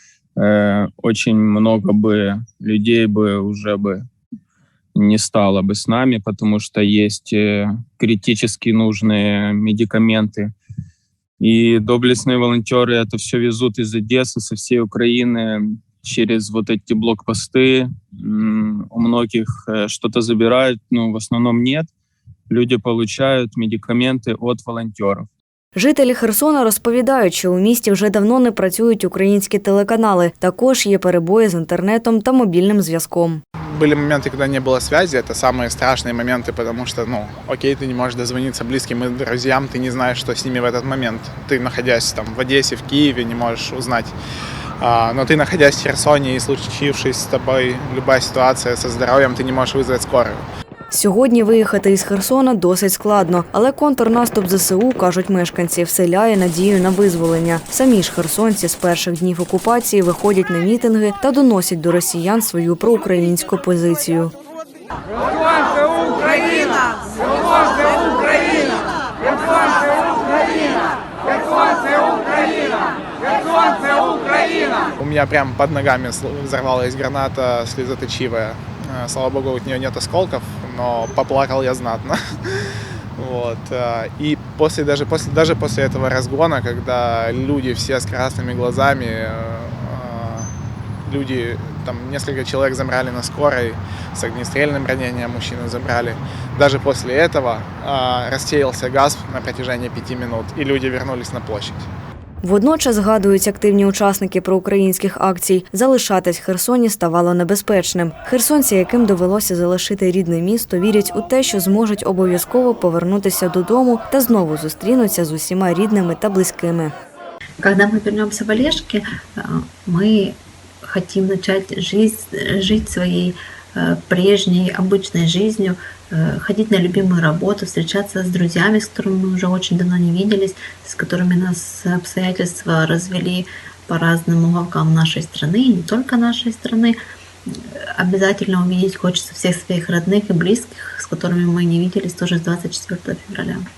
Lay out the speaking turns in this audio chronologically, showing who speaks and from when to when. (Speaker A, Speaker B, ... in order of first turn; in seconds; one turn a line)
Speaker A: 0.4-4.1
Speaker A: 5.0-10.5
Speaker A: 11.4-21.9
Speaker A: 22.5-25.3
Speaker B: 25.8-33.4
Speaker C: 33.6-44.1
Speaker C: 44.8-50.4
Speaker B: 50.9-64.3
Speaker C: 75.0-90.5
Speaker C: 91.0-101.9
Speaker B: 102.4-116.9
Speaker D: 117.6-120.4
Speaker D: 120.9-143.7